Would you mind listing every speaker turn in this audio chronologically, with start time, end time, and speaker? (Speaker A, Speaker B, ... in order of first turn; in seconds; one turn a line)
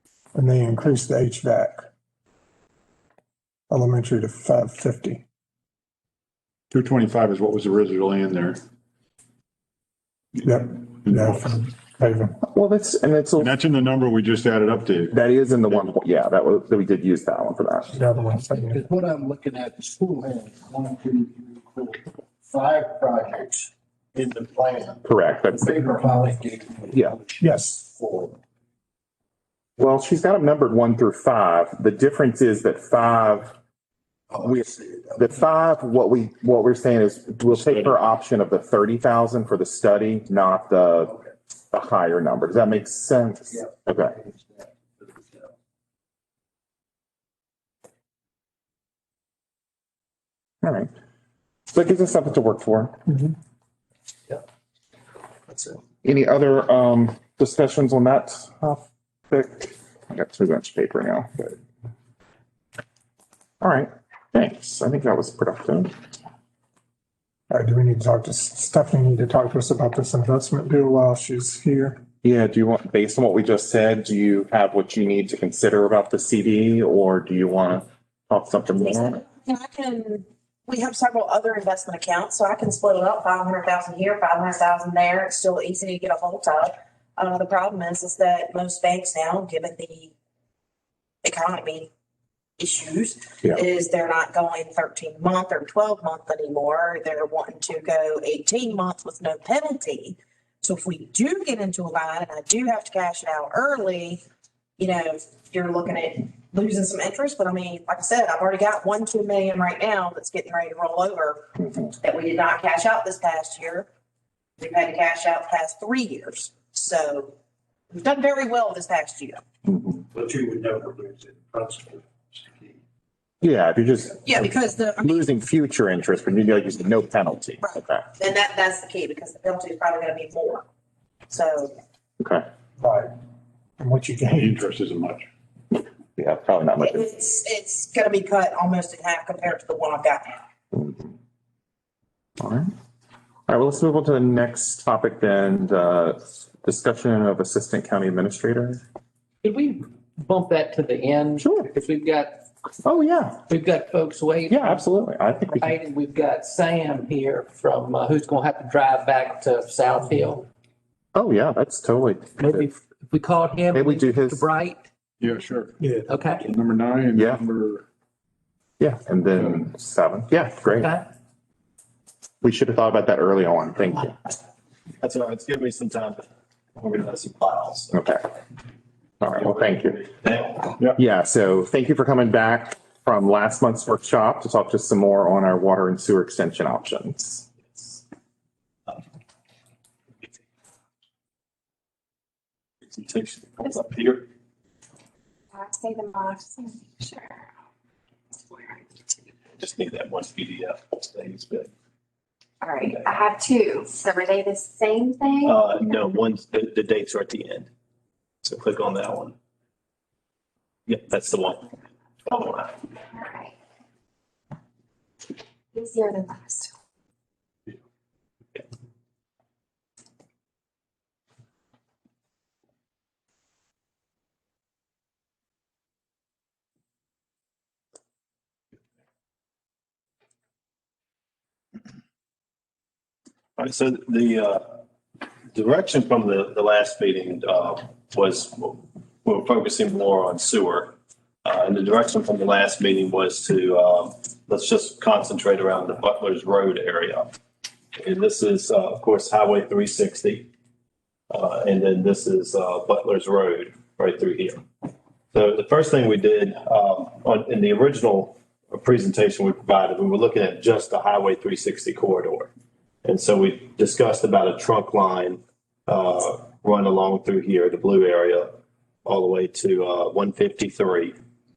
Speaker A: 0.3-1.9
Speaker A: 3.7-5.2
Speaker B: 6.7-8.6
Speaker A: 10.4-12.4
Speaker B: 10.9-11.4
Speaker C: 12.5-13.5
Speaker B: 13.4-15.1
Speaker C: 15.1-17.9
Speaker A: 17.9-18.8
Speaker D: 18.4-28.4
Speaker C: 25.0-26.0
Speaker C: 26.9-27.2
Speaker A: 27.4-27.8
Speaker C: 29.8-33.5
Speaker D: 34.4-34.7
Speaker C: 34.4-41.1
Speaker C: 41.7-44.1
Speaker C: 50.6-50.9
Speaker C: 51.7-53.0
Speaker C: 56.0-61.5
Speaker C: 63.6-65.9
Speaker A: 67.5-72.0
Speaker C: 72.2-79.2
Speaker E: 78.9-90.1
Speaker E: 91.2-91.9
Speaker E: 92.6-104.2
Speaker E: 104.8-111.5
Speaker E: 112.0-113.9
Speaker E: 114.6-117.3
Speaker E: 117.9-119.4
Speaker C: 119.7-120.0
Speaker D: 120.1-122.0
Speaker C: 123.4-124.5
Speaker E: 124.2-125.2
Speaker C: 125.0-128.1
Speaker E: 127.7-130.6
Speaker E: 131.3-131.7
Speaker C: 132.2-132.4
Speaker A: 132.8-133.1
Speaker A: 133.8-134.6
Speaker B: 134.2-135.3
Speaker C: 136.2-137.1
Speaker E: 136.8-140.4
Speaker C: 142.4-142.7
Speaker C: 143.5-148.8
Speaker F: 149.4-152.4
Speaker C: 151.4-151.7
Speaker C: 152.8-153.4
Speaker F: 153.5-154.8
Speaker C: 154.5-155.7
Speaker F: 155.5-160.4
Speaker C: 161.1-162.7
Speaker F: 162.4-164.8
Speaker C: 163.7-164.4
Speaker B: 165.2-165.8
Speaker F: 166.1-166.4
Speaker B: 166.4-167.8
Speaker C: 167.1-167.4
Speaker C: 168.8-170.9
Speaker B: 169.3-169.6
Speaker F: 170.7-171.1
Speaker C: 172.4-174.2
Speaker G: 175.0-176.2
Speaker G: 176.8-178.1
Speaker C: 177.9-178.2
Speaker C: 179.2-180.0
Speaker G: 179.2-180.8
Speaker C: 180.9-187.4
Speaker G: 192.8-194.3
Speaker H: 195.5-197.4
Speaker H: 198.5-199.0
Speaker G: 199.5-201.7
Speaker H: 202.6-205.9
Speaker G: 202.8-203.1
Speaker G: 205.4-207.7
Speaker G: 208.4-209.3
Speaker G: 210.9-213.0
Speaker H: 213.1-213.5
Speaker H: 215.7-216.7
Speaker G: 233.6-234.8
Speaker G: 235.5-247.3
Speaker G: 247.9-250.5
Speaker G: 251.3-254.6
Speaker G: 255.3-262.5
Speaker G: 263.0-271.1